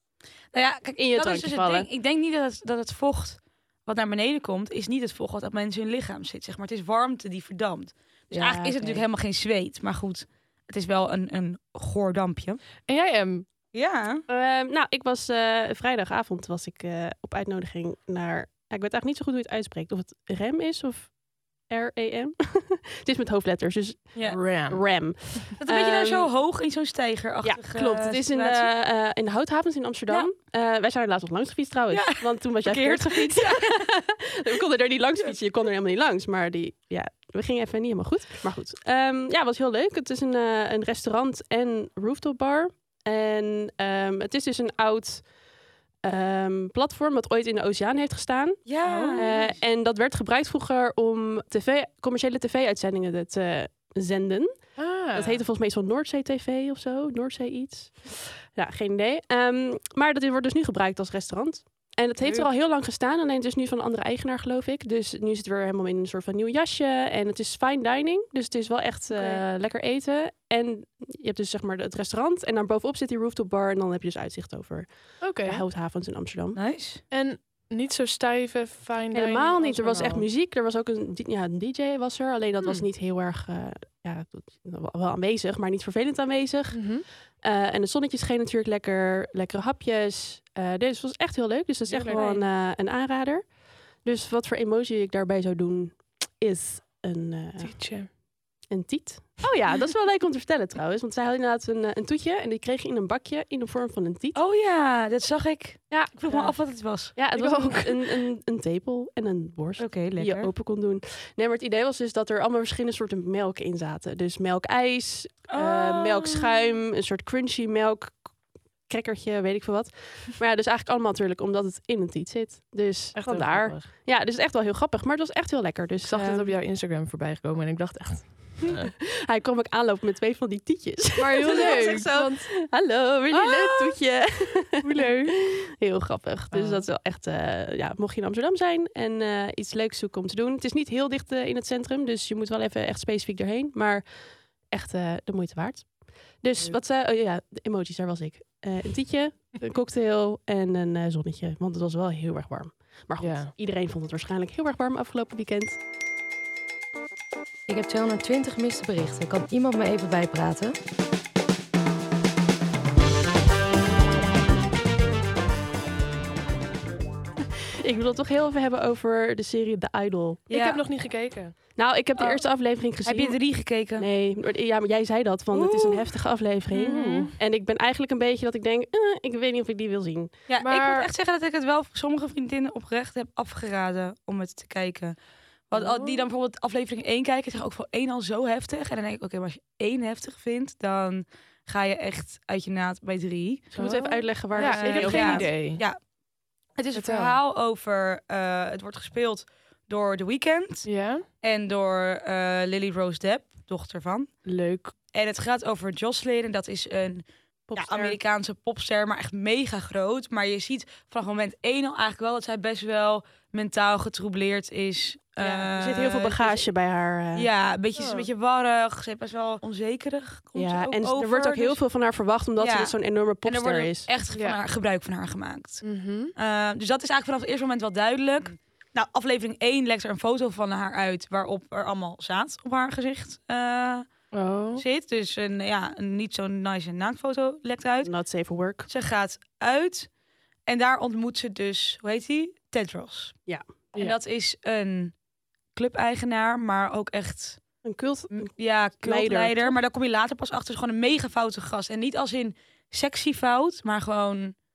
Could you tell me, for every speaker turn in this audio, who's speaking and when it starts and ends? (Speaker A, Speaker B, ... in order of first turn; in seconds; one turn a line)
Speaker A: 0.5-12.6
Speaker B: 1.0-1.9
Speaker B: 8.3-9.0
Speaker C: 12.9-13.5
Speaker A: 13.7-14.2
Speaker B: 14.3-26.3
Speaker C: 24.3-24.8
Speaker A: 25.6-28.7
Speaker B: 27.4-45.3
Speaker A: 31.9-33.9
Speaker B: 46.0-76.6
Speaker A: 48.7-49.6
Speaker C: 48.8-49.3
Speaker C: 54.8-55.4
Speaker C: 69.1-69.4
Speaker C: 75.2-75.6
Speaker A: 76.5-77.0
Speaker C: 77.1-80.3
Speaker B: 79.1-97.8
Speaker C: 86.7-87.0
Speaker C: 91.9-92.3
Speaker A: 92.2-92.4
Speaker C: 97.6-98.1
Speaker B: 98.7-104.4
Speaker A: 104.3-107.1
Speaker B: 105.9-118.3
Speaker C: 107.3-108.1
Speaker A: 109.8-110.5
Speaker A: 115.5-116.7
Speaker B: 118.9-126.5
Speaker C: 123.2-123.9
Speaker C: 126.0-128.9
Speaker B: 128.7-144.1
Speaker C: 131.2-132.5
Speaker A: 131.4-132.1
Speaker C: 133.3-133.9
Speaker C: 134.8-135.3
Speaker C: 136.5-136.8
Speaker B: 144.6-155.8
Speaker C: 153.2-153.5
Speaker D: 158.1-160.7
Speaker B: 167.8-170.4
Speaker A: 170.5-170.8
Speaker C: 170.5-171.6
Speaker B: 171.8-180.4
Speaker A: 172.2-172.4
Speaker A: 173.1-174.1
Speaker A: 176.7-177.3
Speaker C: 176.8-177.3
Speaker A: 180.5-185.2
Speaker C: 180.6-181.1
Speaker A: 185.7-193.8
Speaker C: 185.7-186.2
Speaker B: 193.8-195.5
Speaker C: 193.8-195.8
Speaker A: 194.5-196.0
Speaker A: 196.8-200.9
Speaker C: 196.9-197.4
Speaker C: 200.8-201.2
Speaker A: 201.4-204.3
Speaker C: 204.4-204.9
Speaker A: 205.1-216.7
Speaker B: 207.7-208.2
Speaker B: 215.4-217.5
Speaker A: 217.3-221.8
Speaker C: 218.0-218.3
Speaker B: 220.6-224.1
Speaker A: 222.6-225.8
Speaker C: 224.3-224.6
Speaker C: 225.8-226.3
Speaker A: 226.3-234.1
Speaker C: 234.3-234.8
Speaker A: 234.8-238.1
Speaker B: 238.0-238.9
Speaker A: 238.9-240.1
Speaker A: 240.7-243.4
Speaker A: 243.9-245.2
Speaker A: 245.7-247.6
Speaker B: 247.8-249.8
Speaker A: 248.3-254.6